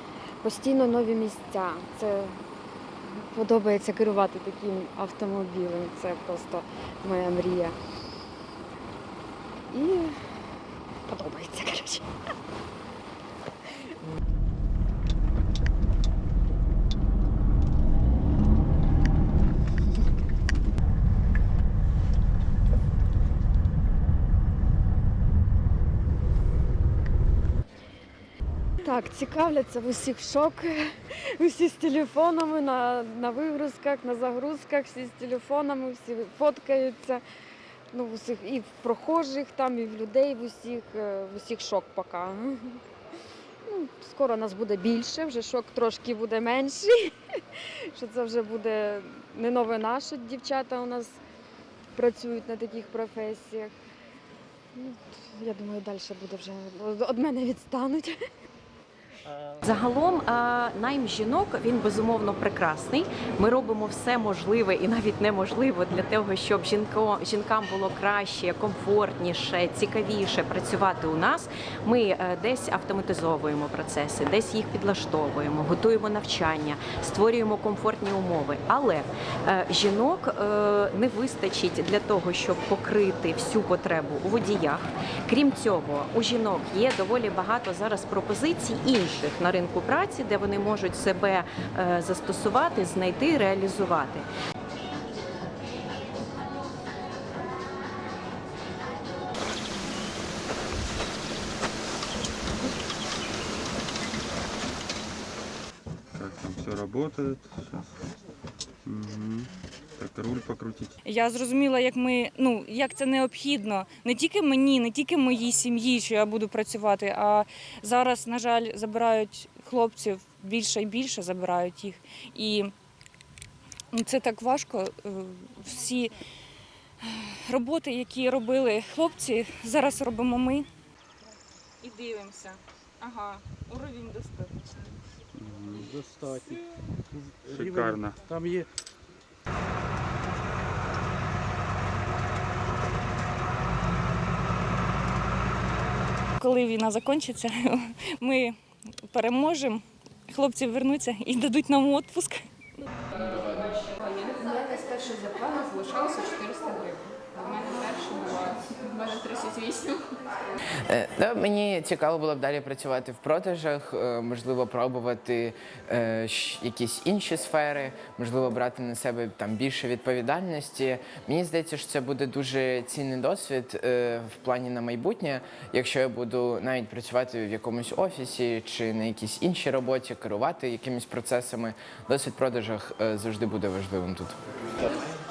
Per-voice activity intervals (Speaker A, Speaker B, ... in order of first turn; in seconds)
Speaker A: 0.4-2.4, 3.0-7.8, 9.7-10.3, 11.1-12.1, 28.8-37.2, 37.9-42.8, 43.7-51.2, 52.0-53.7, 54.8-58.2
Speaker B: 59.6-94.3
Speaker C: 106.1-108.0, 108.8-111.0, 135.3-135.9, 137.5-138.2
Speaker D: 111.0-122.7, 123.9-126.2, 127.0-130.7, 131.8-134.6, 146.4-148.6, 149.1-152.4
Speaker E: 135.7-138.7
Speaker F: 153.8-159.9
Speaker G: 160.8-184.4